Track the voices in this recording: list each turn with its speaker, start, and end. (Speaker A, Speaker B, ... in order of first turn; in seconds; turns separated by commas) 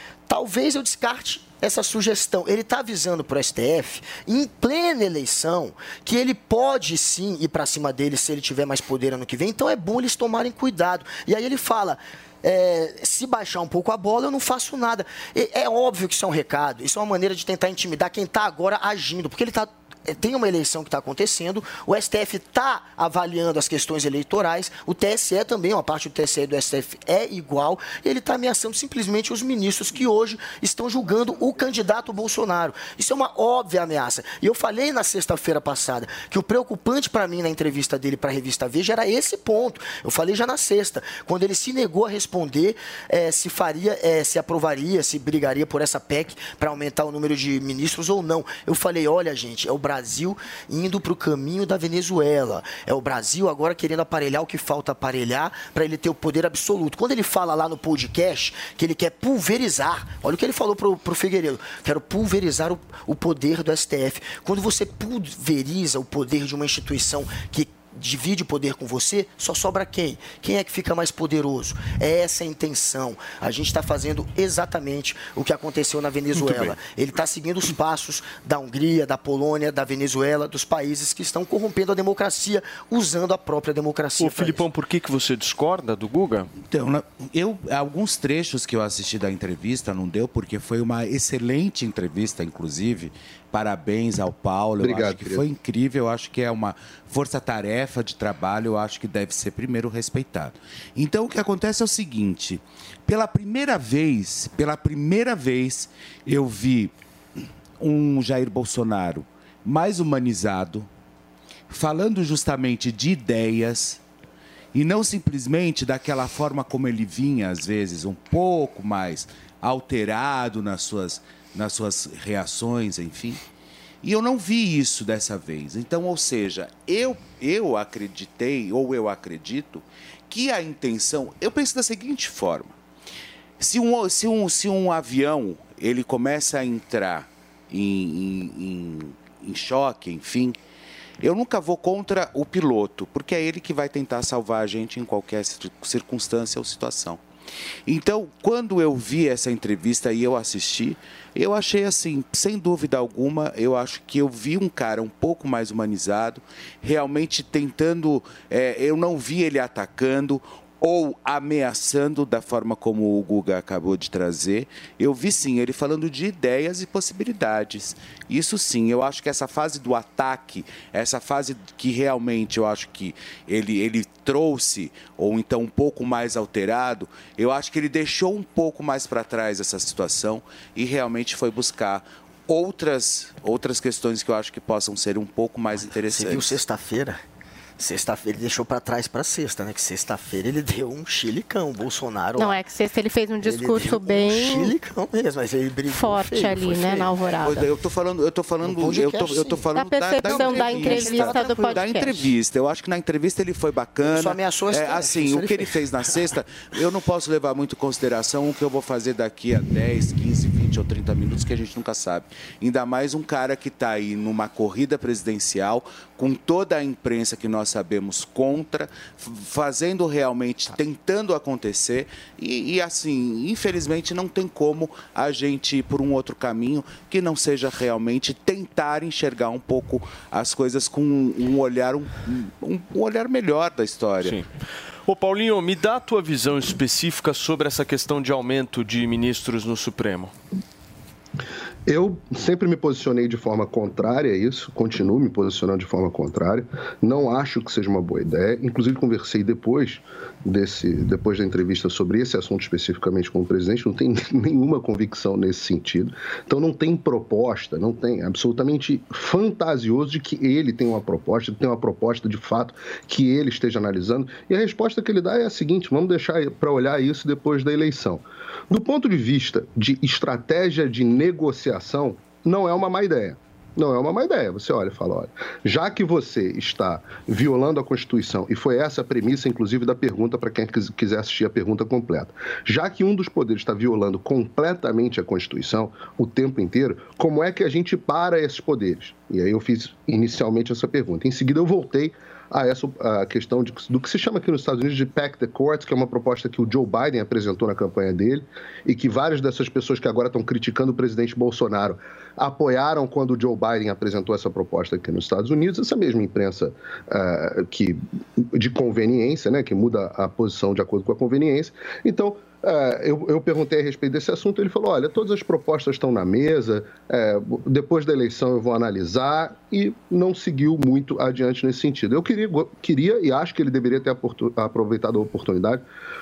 Speaker A: 0.3-84.7, Speaker B: 76.3-76.7, Speaker B: 84.2-86.5, Speaker C: 86.6-106.9, Speaker D: 94.8-95.4, Speaker C: 107.8-110.9, Speaker C: 111.7-114.0, Speaker C: 114.7-123.4, Speaker C: 124.0-132.8, Speaker C: 133.6-140.6, Speaker C: 141.2-147.2, Speaker C: 147.9-186.6, Speaker A: 186.0-187.2, Speaker A: 187.8-192.6, Speaker E: 192.4-194.8, Speaker A: 193.4-197.3, Speaker E: 195.9-197.7, Speaker C: 197.4-234.4, Speaker A: 198.6-199.6, Speaker E: 199.8-202.3, Speaker A: 200.2-201.8, Speaker A: 204.0-206.2, Speaker B: 234.2-234.5, Speaker B: 235.1-240.3, Speaker D: 241.9-325.9